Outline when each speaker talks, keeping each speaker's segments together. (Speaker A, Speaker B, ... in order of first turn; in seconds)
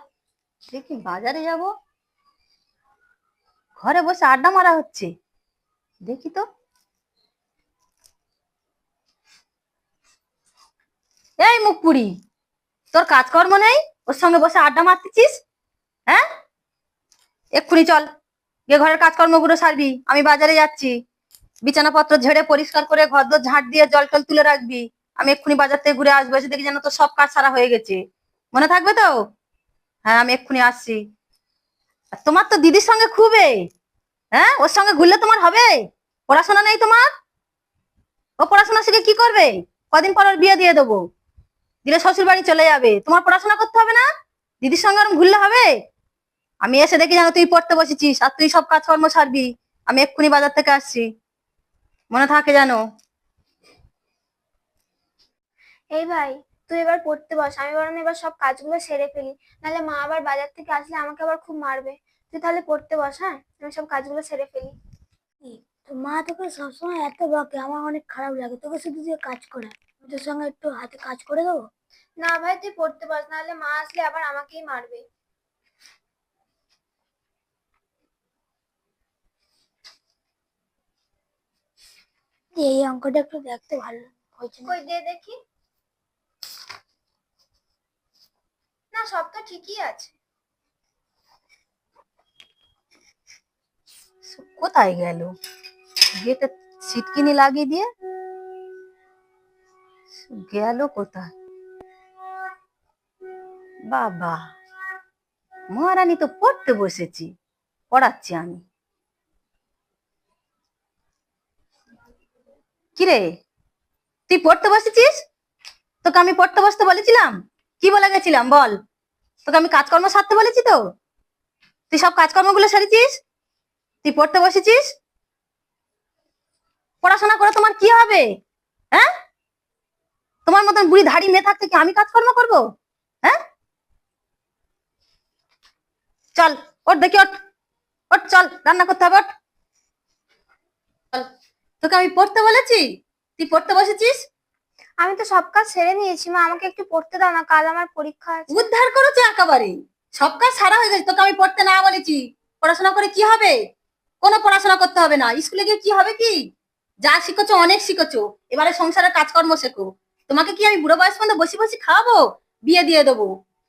Speaker A: 0.7-1.7, 3.8-5.1, 6.0-6.4, 11.4-12.1, 12.9-15.4, 17.6-18.1, 18.7-20.9, 21.6-28.0, 28.5-29.2, 30.1-31.0, 32.2-33.6, 34.3-37.0, 38.4-41.0, 41.8-44.0, 44.6-45.7, 46.6-51.0, 52.1-52.8, 94.2-95.3, 96.2-97.9, 100.2-101.3, 103.9-104.4, 105.7-107.3, 107.9-108.6, 113.0-113.3, 114.3-115.1, 116.0-118.7, 119.5-120.8, 121.9-123.2, 124.0-124.9, 127.0-128.2, 130.4-132.6, 136.3-137.3, 138.1-139.3, 141.8-142.8, 143.4-144.2, 148.5-153.6, 154.2-156.4, 157.0-163.3
Speaker B: 55.9-64.7, 72.2-75.0, 84.6-85.3, 88.9-90.1, 145.0-148.6
Speaker C: 65.4-71.7, 82.6-84.7